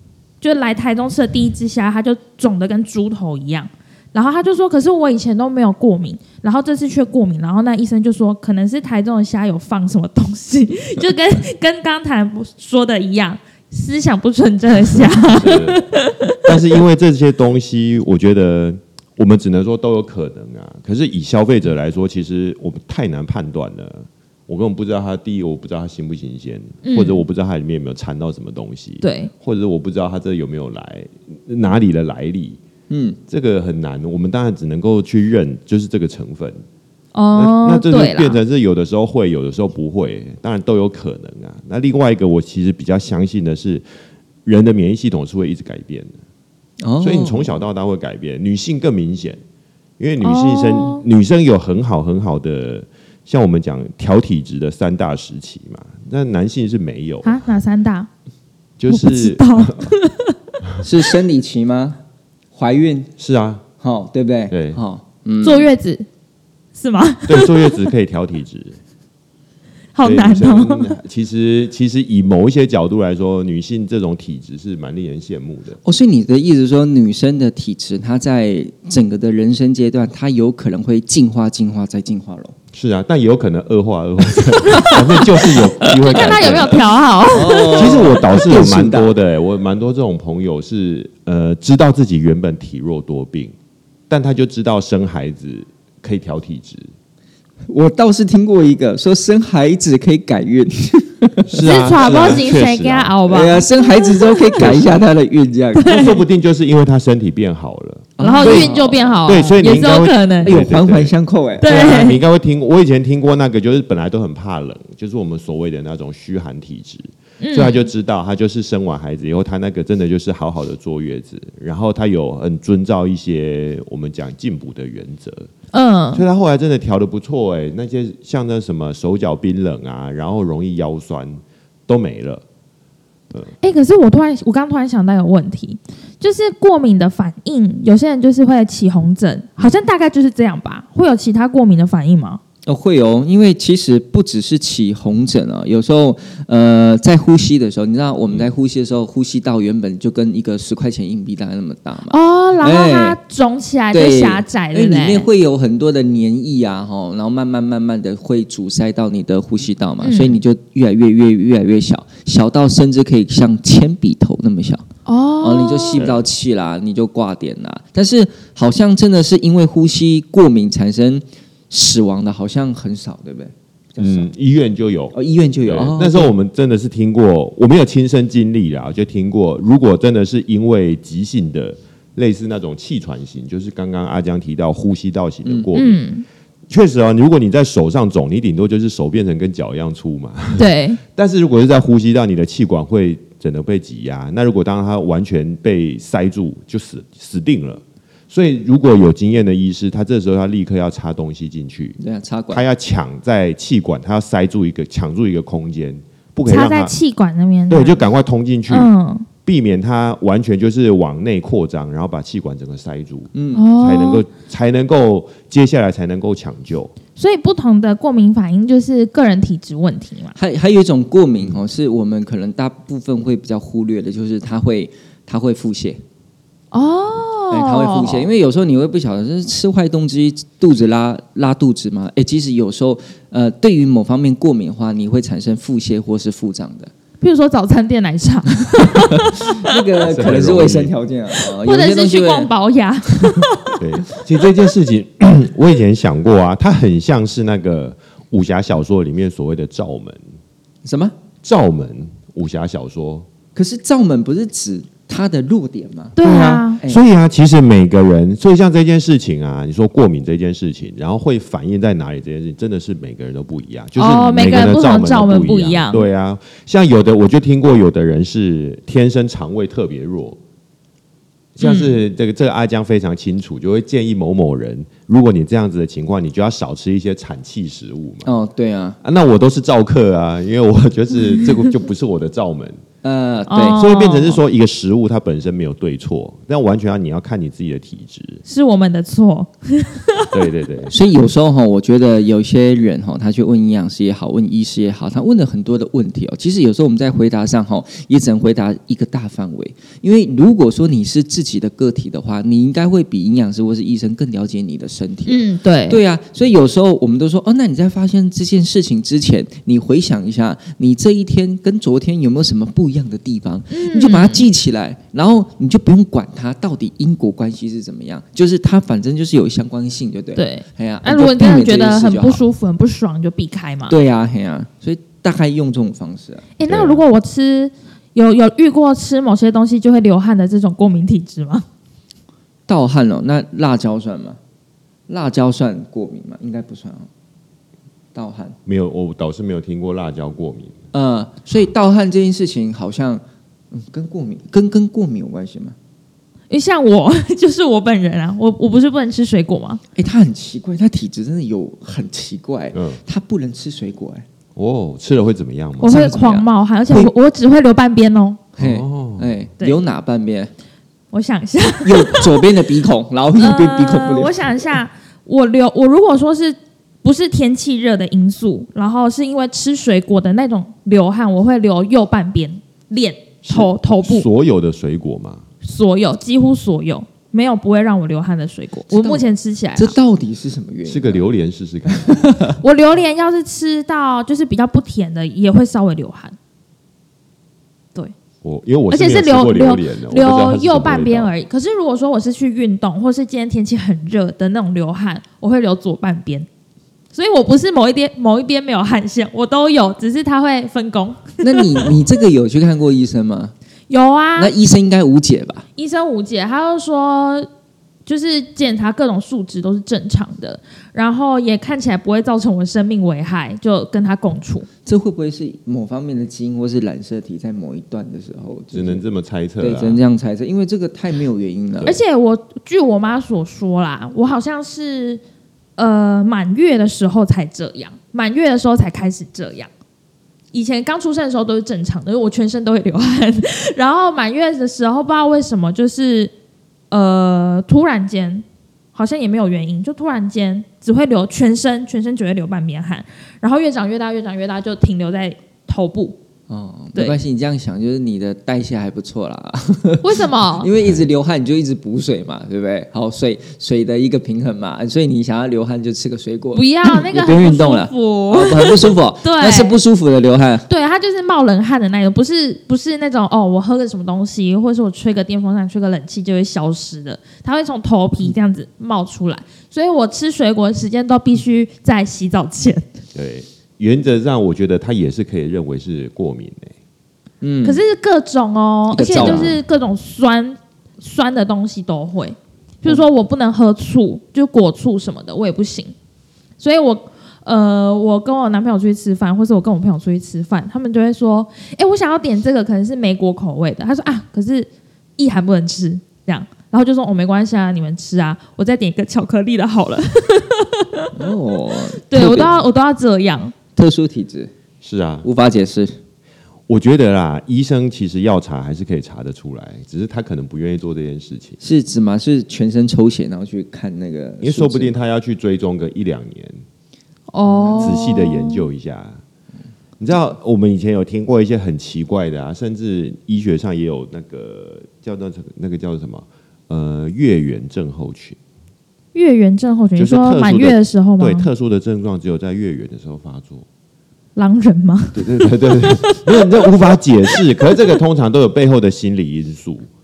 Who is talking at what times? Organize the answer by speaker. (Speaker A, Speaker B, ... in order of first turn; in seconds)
Speaker A: 0.4-16.4, 26.8-27.2, 29.0-29.3, 37.1-38.4, 50.2-51.0, 57.2-58.1, 58.9-60.4, 65.4-66.1, 66.8-67.9, 70.0-71.0, 84.6-88.0, 101.6-104.5, 105.8-106.2, 108.2-110.5, 111.6-112.2, 117.4-117.9, 125.7-126.2, 133.6-142.4, 152.1-155.3, 160.0-160.4, 165.1-166.0, 185.7-186.2, 190.6-191.0, 206.5-208.0, 208.7-209.3, 213.5-214.2, 217.2-220.3, 226.7-228.3, 237.2-239.8, 241.4-243.8, 256.2-256.8, 264.0-266.0, 271.6-271.9, 283.5-284.4, 288.5-290.3, 305.2-306.0, 313.7-314.5, 320.4-323.9, 326.6-331.6, 346.5-349.8, 355.8-358.4, 361.1-362.5, 363.4-374.2, 375.6-380.0, 382.6-386.4, 388.9-396.5, 397.1-401.9, 403.9-404.5, 405.8-407.5, 408.1-414.7, 421.8-425.2, 425.8-429.7, 430.5-436.3, 436.9-446.2, 450.0-450.7, 456.5-459.8, 460.7-472.9, 477.6-485.9, 486.6-501.1, 502.1-503.6, 517.3-518.6, 529.1-531.5, 534.4-536.5, 537.3-537.7
Speaker B: 14.9-15.9, 16.4-32.6, 33.3-36.6, 37.4-43.8, 44.5-46.1, 47.0-49.4, 50.0-57.4, 58.8-59.9, 63.2-63.6, 64.5-64.8, 67.3-68.8, 70.0-75.8, 82.7-86.8, 87.6-93.5, 94.1-96.9, 101.5-103.2, 104.6-105.1, 105.9-125.5, 126.1-132.4, 165.9-166.3, 174.0-186.0, 186.7-202.0, 202.5-206.9, 207.7-208.9, 209.4-216.9, 240.0-240.9, 243.8-250.2, 251.4-253.3, 256.2-270.4, 271.6-278.3, 279.0-282.8, 283.8-288.4, 290.3-290.9, 326.7-327.0, 338.6-340.8, 352.7-353.0, 354.6-356.0, 358.6-359.4, 373.5-375.4, 380.9-382.6, 388.4-391.3, 418.7-420.0, 473.1-476.8, 479.1-479.6, 504.8-505.3, 506.7-511.6, 514.4-516.6, 517.8-519.2, 520.0-528.4, 530.0-533.6, 535.1-539.9
Speaker C: 32.9-33.2, 46.8-47.6, 60.8-62.0, 62.5-63.1, 63.8-65.7, 75.8-82.5, 86.2-86.6, 87.3-89.1, 97.7-101.6, 103.3-106.0, 108.2-109.3, 110.4-111.9, 142.7-153.2, 153.9-164.8, 165.4-174.3, 175.1-176.3, 202.0-202.6, 213.3-213.7, 220.4-226.0, 227.5-236.9, 239.5-242.5, 250.8-251.1, 253.6-256.2, 278.2-279.0, 283.0-283.8, 290.9-322.4, 323.9-326.6, 332.7-334.4, 335.1-337.1, 338.1-338.6, 340.9-345.8, 349.9-354.2, 355.8-357.1, 358.6-360.5, 361.8-364.7, 378.9-379.2, 379.8-381.2, 381.9-382.5, 401.4-403.5, 404.4-405.6, 414.9-419.0, 419.6-421.9, 446.5-460.7, 477.4-477.8, 478.9-479.6, 501.1-502.6, 503.8-504.5, 505.2-505.9, 511.6-514.9, 517.5-518.0